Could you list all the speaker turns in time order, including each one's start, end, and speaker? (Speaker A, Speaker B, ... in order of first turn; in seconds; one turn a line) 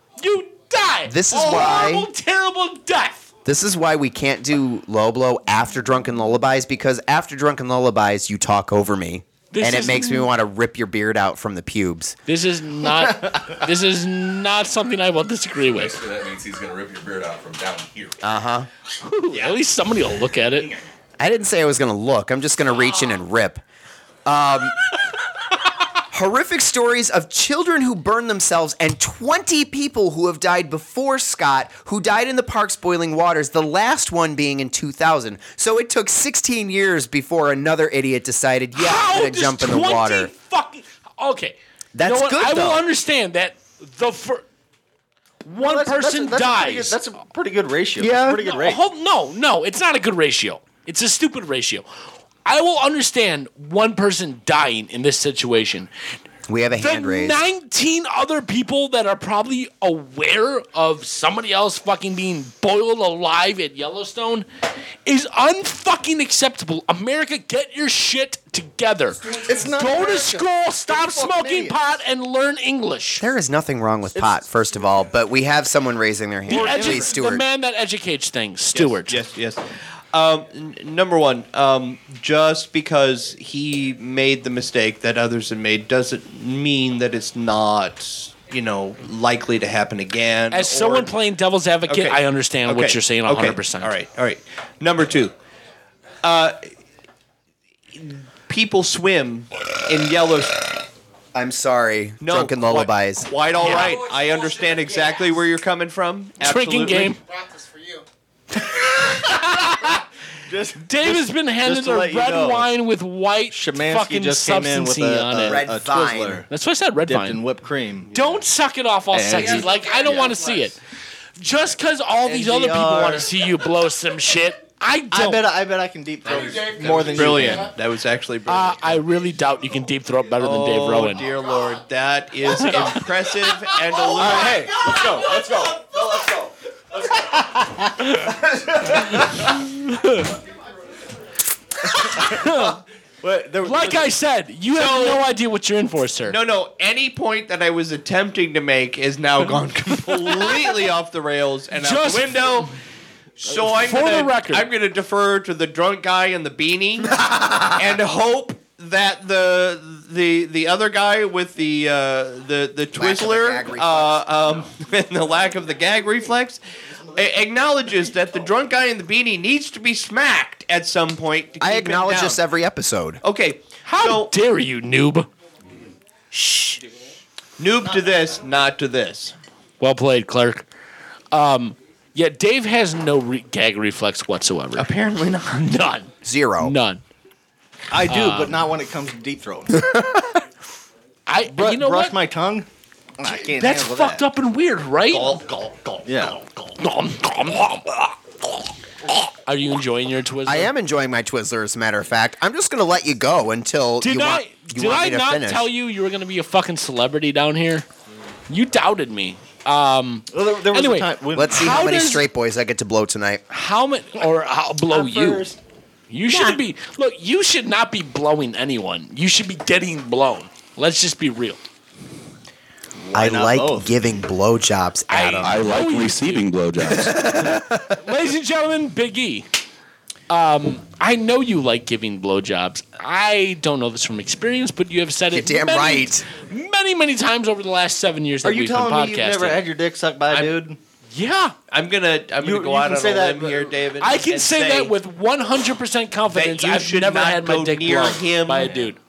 Speaker A: 0.2-3.3
Speaker B: 1.1-2.1
Speaker B: 3.4-12.2
Speaker A: 9.5-10.3
Speaker A: 12.3-16.0
Speaker C: 13.0-13.4
Speaker D: 15.7-18.1
Speaker B: 18.2-18.7
Speaker A: 19.0-20.7
Speaker B: 21.2-23.6
Speaker B: 24.2-24.8
Speaker B: 26.1-40.3
Speaker A: 38.7-44.4
Speaker B: 41.9-42.8
Speaker A: 45.4-47.0
Speaker C: 45.6-48.8
Speaker B: 48.0-48.4
Speaker A: 48.4-51.8
Speaker A: 52.5-55.9
Speaker B: 56.5-57.4
Speaker A: 56.8-64.5
Speaker A: 65.0-73.3
Speaker C: 69.2-71.8
Speaker B: 73.2-77.4
Speaker C: 74.1-74.4
Speaker C: 76.5-77.2
Speaker A: 76.5-79.2
Speaker E: 78.7-91.1
Speaker A: 90.5-93.9
Speaker E: 91.9-95.3
Speaker E: 96.2-96.7
Speaker E: 97.9-100.7
Speaker B: 101.3-103.3
Speaker E: 102.2-107.2
Speaker A: 103.6-104.0
Speaker A: 106.4-107.2
Speaker A: 108.7-110.0
Speaker C: 110.5-112.7
Speaker A: 110.8-115.7
Speaker C: 113.5-116.5
Speaker B: 115.5-116.4
Speaker A: 116.5-117.4
Speaker C: 117.0-118.3
Speaker A: 118.1-120.8
Speaker C: 119.1-120.7
Speaker A: 121.4-125.4
Speaker C: 122.2-123.3
Speaker C: 125.1-127.7
Speaker E: 126.5-129.0
Speaker A: 127.0-127.3
Speaker A: 128.5-131.3
Speaker E: 130.4-134.9
Speaker C: 134.1-136.5
Speaker C: 137.6-139.5
Speaker A: 137.9-138.3
Speaker A: 138.8-140.3
Speaker A: 141.9-142.8
Speaker C: 142.0-142.7
Speaker C: 143.2-144.1
Speaker A: 143.6-146.4
Speaker E: 144.7-145.2
Speaker E: 146.2-152.7
Speaker A: 151.7-152.7
Speaker E: 153.4-166.6
Speaker A: 153.5-154.7
Speaker B: 162.9-164.3
Speaker E: 167.1-172.4
Speaker B: 171.6-173.2
Speaker E: 173.2-174.3
Speaker A: 173.8-175.3
Speaker B: 176.3-176.8
Speaker E: 177.6-179.4
Speaker A: 179.8-180.7
Speaker A: 181.3-184.9
Speaker E: 184.8-185.7
Speaker A: 185.5-187.0
Speaker B: 186.2-186.8
Speaker C: 187.9-189.9
Speaker A: 188.1-188.6
Speaker A: 191.3-192.2
Speaker C: 191.4-192.7
Speaker C: 193.2-194.2
Speaker A: 193.2-195.4
Speaker E: 195.1-196.4
Speaker C: 196.1-196.4
Speaker A: 196.8-200.7
Speaker B: 200.4-205.7
Speaker A: 204.0-207.8
Speaker A: 208.5-212.2
Speaker C: 210.3-211.8
Speaker B: 211.3-213.4
Speaker A: 213.5-215.5
Speaker E: 214.9-215.6
Speaker A: 216.1-221.6
Speaker C: 223.0-223.9
Speaker B: 223.1-225.8
Speaker A: 225.1-226.5
Speaker D: 225.4-227.3
Speaker B: 227.0-227.6
Speaker A: 227.8-229.5
Speaker A: 230.3-239.6
Speaker B: 235.3-236.2
Speaker C: 238.4-240.8
Speaker A: 241.1-241.6
Speaker E: 241.7-244.9
Speaker C: 242.4-243.8
Speaker A: 244.0-249.0
Speaker E: 246.3-248.8